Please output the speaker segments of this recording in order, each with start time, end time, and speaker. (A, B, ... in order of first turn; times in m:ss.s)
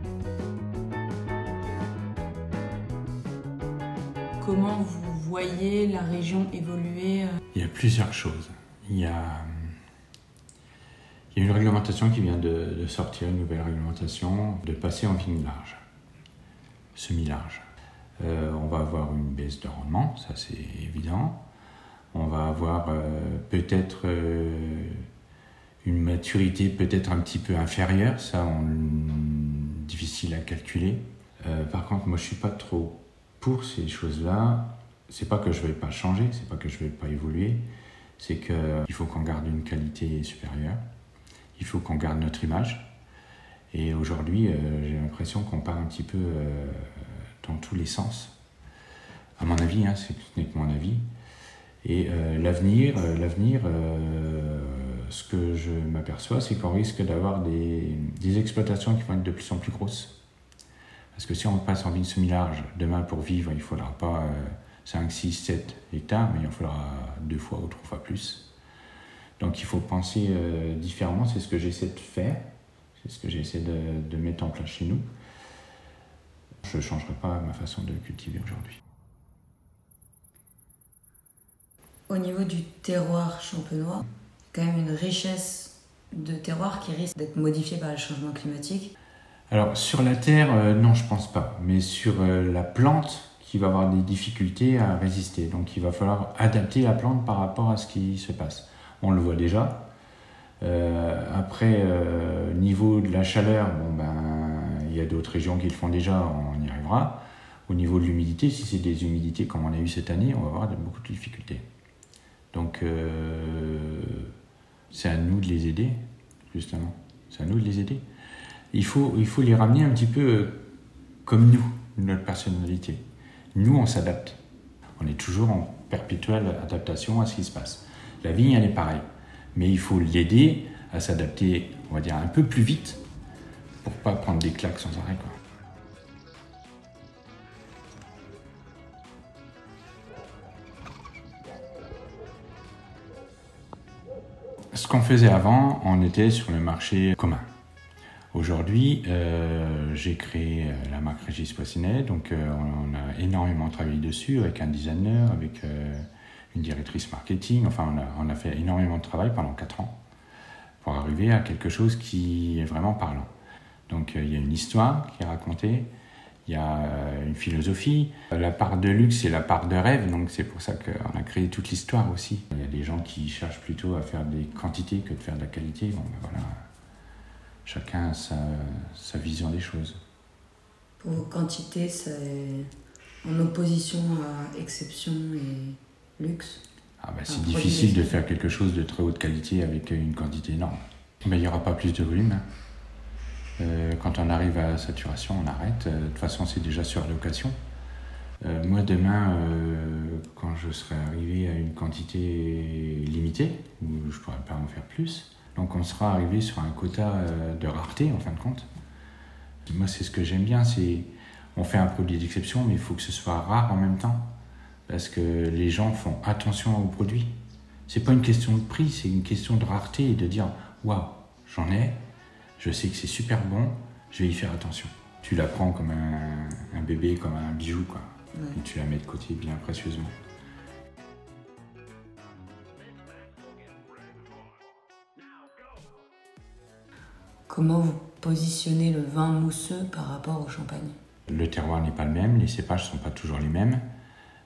0:04.4-0:07.4 A
0:07.5-0:09.7 B
0:11.3-0:15.8 B
0:16.9-0:17.6 B
0:18.2-0:21.4 B
0:22.1-0:25.0 B
0:25.8-0:37.6 B
0:38.2-0:40.8 B
0:41.6-0:42.9 B
0:43.7-0:48.4 B
0:49.4-0:51.0 B
0:51.8-1:00.2 B
1:01.1-1:08.5 B
1:09.4-1:12.5 B
1:13.0-1:15.0 B
1:16.6-1:18.8 B
1:22.1-1:28.9 C
1:29.5-1:39.9 B
1:40.6-1:51.6 B
1:52.5-1:54.3 B
1:54.9-1:56.0 B
1:56.5-1:58.0 B
1:58.7-2:00.7 B
2:01.2-2:03.0 B
2:03.5-2:04.4 B
2:05.0-2:09.0 B
2:09.5-2:13.0 B
2:13.8-2:15.4 B
2:24.7-2:27.5 B
2:28.3-2:40.0 B
2:40.8-2:43.3 B
2:43.9-2:45.9 B
2:46.4-2:56.6 B
2:57.6-3:00.0 B
3:01.0-3:02.7 C
3:03.2-3:06.6 C
3:07.0-3:12.4 B
3:07.3-3:08.2 C
3:13.6-3:17.6 B
3:18.4-3:28.7 B
3:29.7-3:34.3 B
3:34.9-3:37.3 B
3:37.9-3:42.0 B
3:42.6-3:50.1 B
3:48.3-3:48.6 C
3:57.5-4:01.0 C
4:01.3-4:03.8 B